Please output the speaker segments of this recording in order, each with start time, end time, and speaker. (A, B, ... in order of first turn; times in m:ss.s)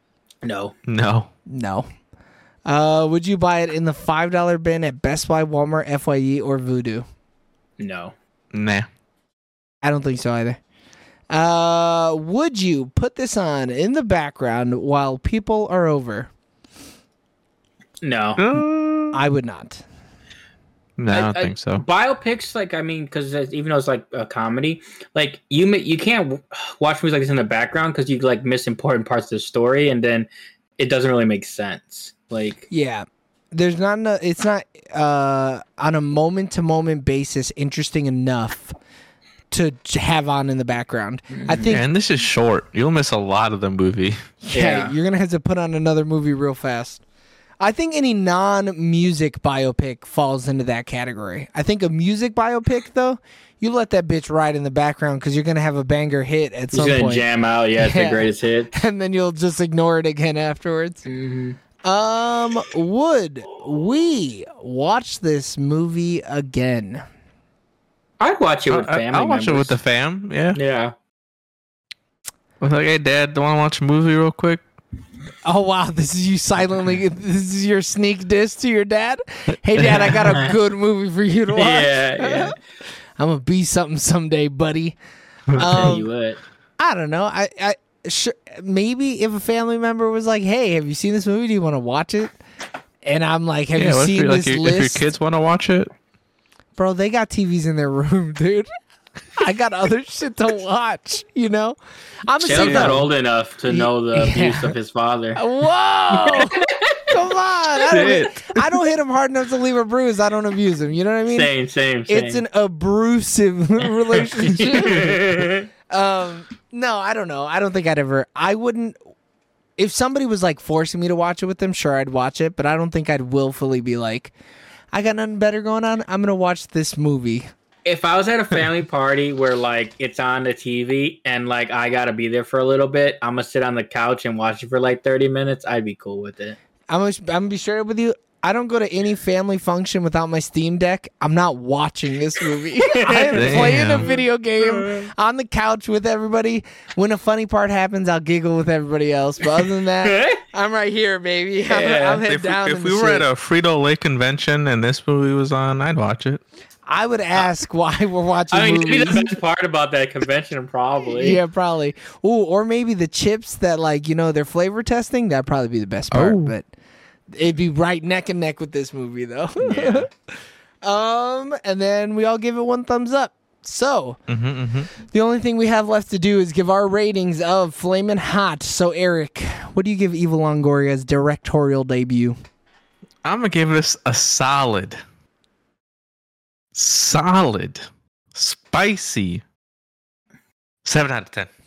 0:00.4-0:00.8 A
0:00.9-0:01.3 B
0:01.5-0:01.9 C
0:02.7-0:07.0 C
0:07.8-0:08.2 A
0:08.5-0:08.9 B
0:09.8-0:10.6 C
0:11.3-0:16.3 C
0:18.0-0:18.4 A
0:18.4-0:19.2 B
0:19.1-0:19.8 C
0:21.0-0:21.8 B
0:21.1-0:32.7 A
0:32.7-0:38.8 C
0:39.5-0:41.8 C
0:41.3-0:41.8 A
0:41.7-0:44.2 B
0:44.4-0:47.0 C
0:44.5-0:45.0 A
0:47.6-0:57.2 C
0:56.7-0:58.7 A
0:57.8-1:01.0 C
1:01.1-1:01.6 A
1:01.8-1:07.0 C
1:08.2-1:09.8 A
1:08.7-1:10.6 B
1:10.6-1:10.9 A
1:12.6-1:14.6 B
1:15.4-1:22.6 C
1:19.8-1:20.5 A
1:21.6-1:22.6 A
1:23.2-1:25.0 C
1:25.5-1:25.9 B
1:25.5-1:26.1 C
1:25.6-1:26.4 A
1:26.8-1:32.4 C
1:33.0-1:35.0 C
1:33.8-1:35.9 B
1:36.8-1:38.7 C
1:39.4-1:43.1 C
1:42.4-1:45.4 A
1:42.6-1:43.0 B
1:43.7-1:44.7 C
1:45.4-1:51.5 C
1:46.1-1:47.1 A
1:47.8-1:48.8 B
1:51.3-1:52.4 A
1:52.1-1:59.0 C
1:53.8-1:55.7 A
1:59.8-2:04.3 C
2:04.9-2:07.5 C
2:07.9-2:16.6 A
2:16.9-2:33.3 C
2:22.8-2:25.1 A
2:23.3-2:24.1 B
2:30.0-2:30.4 A
2:31.7-2:32.2 A
2:32.2-2:36.4 B
2:36.9-2:39.4 C
2:38.5-2:41.4 A
2:41.0-2:46.7 C
2:46.1-2:46.5 B
2:47.3-2:50.1 C
2:49.6-2:50.1 A
2:50.8-2:54.2 C
2:54.3-2:54.9 B
2:55.0-3:02.4 C
3:03.2-3:05.0 B
3:06.8-3:09.4 B
3:10.8-3:11.5 B